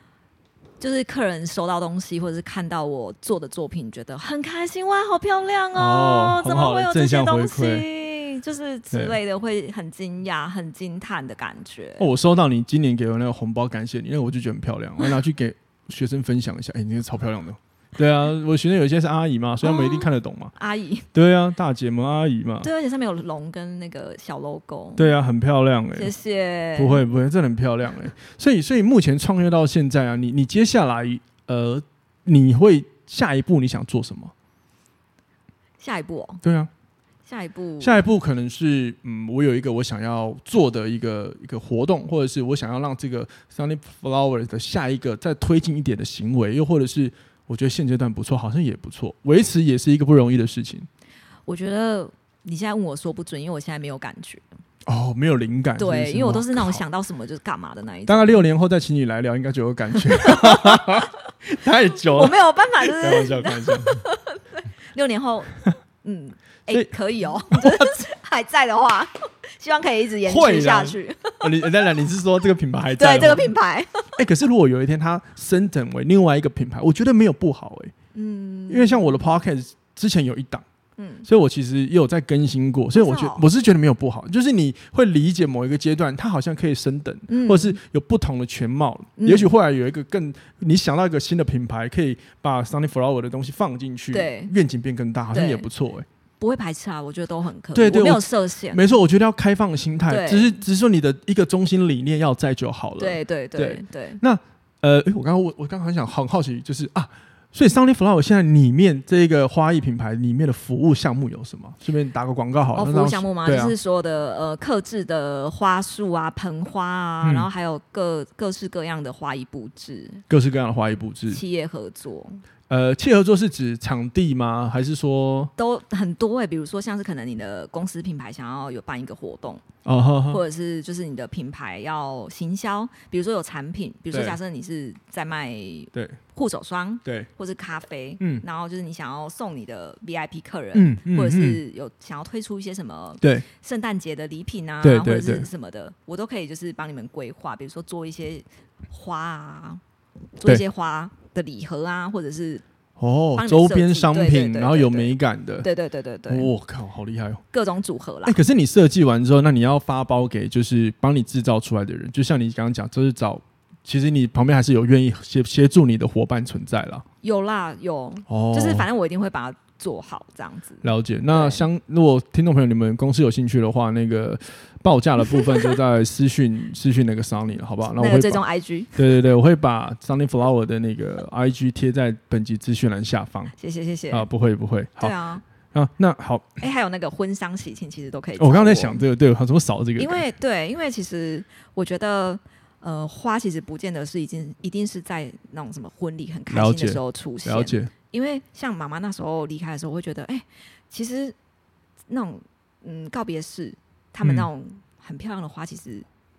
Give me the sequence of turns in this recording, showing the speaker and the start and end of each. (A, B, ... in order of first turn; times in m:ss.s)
0:00.8-0:12.0 A
0:05.7-0:07.9 B
0:08.9-0:09.2 B
0:12.0-0:20.5 B
0:19.6-0:21.1 A
0:21.1-0:22.7 B
0:22.6-0:25.1 A
0:25.0-0:26.1 B
0:25.9-0:27.0 A
0:26.8-0:34.3 B
0:35.8-0:36.4 A
0:36.4-0:36.7 B
0:37.2-0:38.0 A
0:37.8-0:50.9 B
0:51.4-0:54.4 A
0:54.9-0:56.8 B
0:55.8-0:58.4 A
0:58.1-1:04.0 B
0:59.9-1:01.1 A
1:02.1-1:11.5 A
1:07.5-1:07.9 B
1:10.2-1:13.5 B
1:13.0-1:14.1 A
1:14.1-1:17.9 B
1:18.1-1:19.2 A
1:18.7-1:20.6 B
1:21.0-1:21.3 A
1:21.2-1:36.1 B
1:22.9-1:23.4 A
1:27.3-1:27.8 A
1:29.2-1:29.5 A
1:34.1-1:34.5 A
1:35.3-1:35.6 A
1:36.4-1:38.8 A
1:37.7-1:53.7 B
1:40.1-1:40.6 A
1:43.0-1:44.2 A
1:52.7-2:00.2 A
1:57.2-1:57.5 B
2:00.3-2:01.4 B
2:01.3-2:02.4 A
2:02.7-2:05.5 B
2:05.6-2:09.6 A
2:09.8-2:10.4 B
2:10.3-2:29.8 A
2:14.1-2:14.4 B
2:20.7-2:21.6 B
2:23.2-2:23.4 B
2:24.8-2:25.5 B
2:30.4-2:32.6 A
2:33.0-2:35.7 B
2:33.3-2:36.5 A
2:36.3-2:37.4 B
2:37.5-2:38.4 A
2:38.2-2:47.0 B
2:47.2-2:51.6 A
2:48.3-2:48.9 B
2:50.8-2:58.4 B
2:58.0-2:59.0 A
2:58.9-3:03.5 B
3:03.6-3:04.3 A
3:04.1-3:05.1 B
3:05.0-3:05.4 A
3:05.7-3:06.6 B
3:06.6-3:09.0 A
3:08.4-3:10.2 B
3:10.0-3:21.4 A
3:16.5-3:17.9 B
3:22.1-3:26.1 A
3:24.2-3:24.5 B